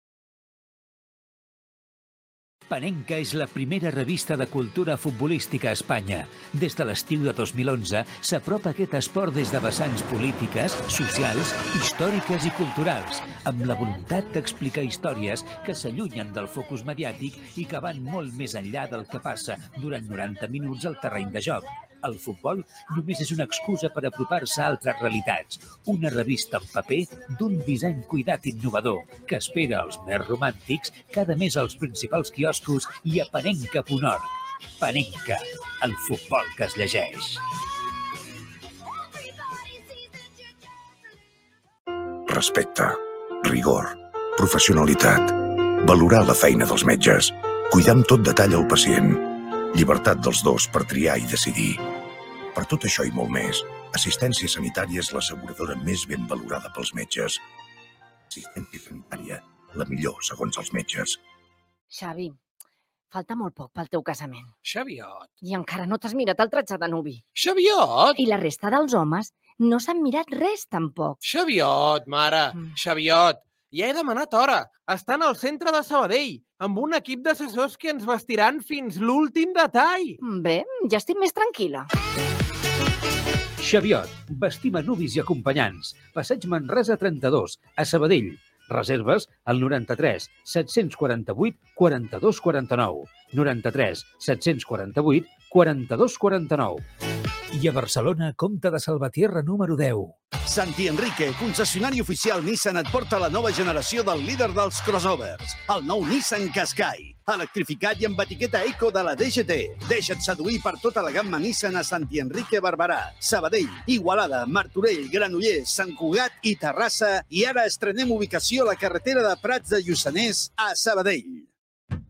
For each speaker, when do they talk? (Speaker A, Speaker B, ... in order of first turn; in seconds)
Speaker A: 2.7-34.2, 34.8-37.4, 83.6-96.8, 97.5-100.1
Speaker B: 42.3-51.8, 52.5-57.4, 58.3-61.2
Speaker C: 61.9-62.4, 63.1-64.5, 65.4-67.2, 68.2-71.2, 80.2-81.9
Speaker D: 64.6-65.3, 67.3-68.2, 71.2-80.2
Speaker E: 100.4-121.5